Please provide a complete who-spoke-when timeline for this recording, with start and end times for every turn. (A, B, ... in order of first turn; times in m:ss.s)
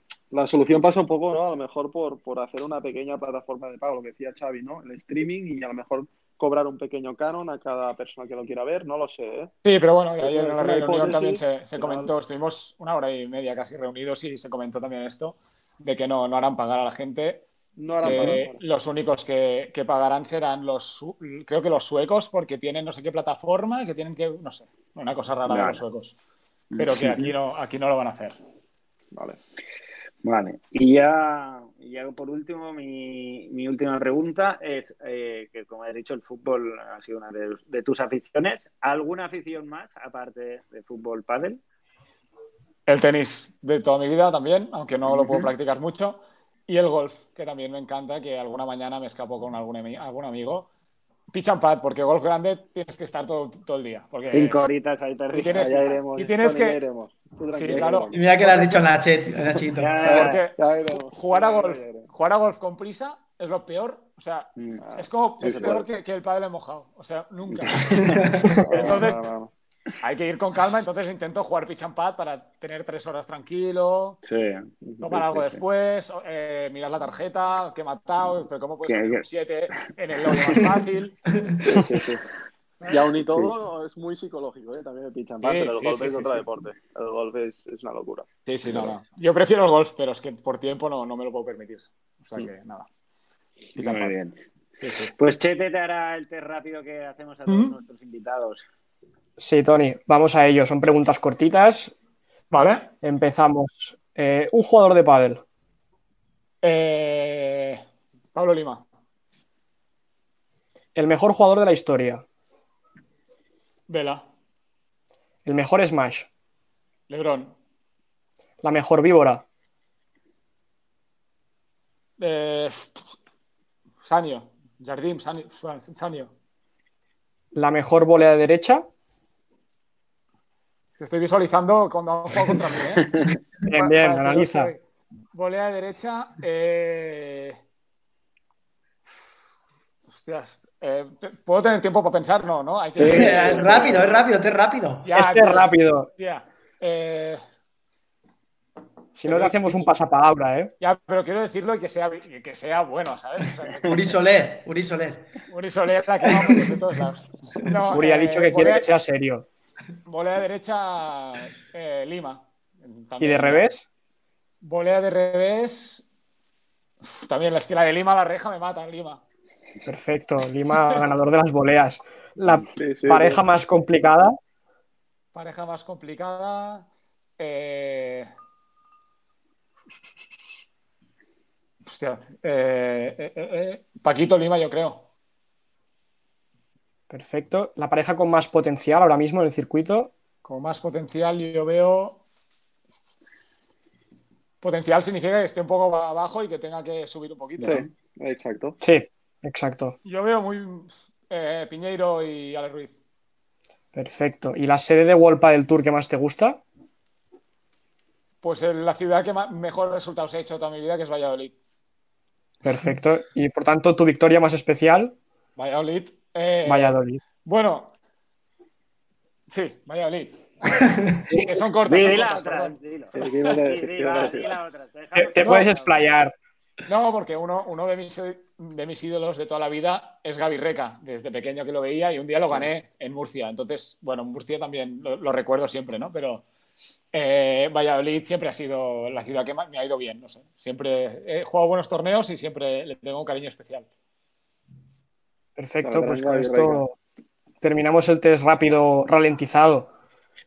0:00.3-0:09.5 A
0:09.6-0:17.5 B
0:10.2-0:12.1 A
0:17.8-0:18.6 A
0:18.0-0:26.2 B
0:18.0-0:18.4 C
0:25.5-0:25.8 C
0:26.7-0:27.3 C
0:26.8-0:28.4 B
0:29.1-0:29.4 A
0:30.2-0:41.6 C
0:42.9-0:50.7 B
0:45.1-0:45.5 C
0:51.3-0:54.6 B
0:54.3-0:56.0 C
0:55.3-0:56.8 B
0:55.4-0:58.6 A
0:57.5-0:58.7 B
0:58.1-1:00.2 D
0:59.8-1:00.5 C
1:00.0-1:00.6 B
1:00.0-1:02.1 A
1:01.1-1:09.3 B
1:04.6-1:04.8 C
1:04.8-1:05.8 A
1:05.4-1:05.8 C
1:07.6-1:09.1 C
1:08.1-1:08.6 D
1:08.6-1:09.5 A
1:10.0-1:14.2 B
1:14.2-1:14.7 C
1:14.8-1:15.5 A
1:15.0-1:21.2 B
1:18.9-1:19.2 C
1:21.6-1:22.2 A
1:21.7-1:22.2 C
1:22.9-1:28.3 A
1:25.4-1:26.4 B
1:28.5-1:32.9 B
1:33.8-1:34.2 B
1:33.8-1:34.4 C
1:34.8-1:35.1 B
1:35.2-1:38.7 C
1:37.5-1:37.8 B
1:39.4-1:41.9 E
1:42.5-1:42.9 B
1:43.0-1:45.4 E
1:46.6-1:48.8 B
1:51.0-1:52.2 E
1:53.9-1:54.2 B
1:55.4-1:56.3 E
1:57.1-1:57.6 B
1:58.6-1:59.4 E
2:02.2-2:02.9 B
2:04.0-2:06.3 B
2:07.5-2:08.9 E
2:11.0-2:13.1 B
2:13.6-2:14.7 E
2:13.7-2:14.8 B
2:15.3-2:17.6 B
2:20.1-2:24.3 B
2:23.0-2:24.1 C
2:23.0-2:25.1 D
2:25.1-2:27.4 B
2:25.1-2:26.1 E
2:29.1-2:30.7 E
2:29.3-2:29.9 B
2:30.8-2:34.2 B
2:33.8-2:35.3 D
2:35.5-2:38.9 B
2:37.9-2:39.5 E
2:40.0-2:43.7 B
2:43.2-2:43.9 E
2:44.6-2:46.0 B
2:47.1-2:49.2 B
2:49.8-2:54.4 E
2:52.7-2:53.4 A
2:55.3-2:56.9 B
2:57.4-2:58.3 B
3:01.9-3:05.0 B
3:07.1-3:10.1 E
3:10.4-3:12.2 B
3:14.6-3:17.8 B
3:17.6-3:17.9 C
3:17.6-3:18.8 A
3:18.8-3:20.0 E
3:20.0-3:23.0 B
3:23.9-3:26.6 E
3:28.4-3:31.6 B
3:32.6-3:35.2 E
3:35.6-3:37.9 B
3:36.7-3:37.2 E
3:39.5-3:43.4 B
3:40.8-3:41.4 D
3:41.8-3:46.1 C
3:43.2-3:44.5 A
3:45.1-3:46.4 E
3:45.4-3:45.7 B
3:46.9-3:56.4 B
3:57.1-4:03.9 B
4:05.6-4:07.0 E
4:05.8-4:06.8 A
4:07.6-4:09.9 E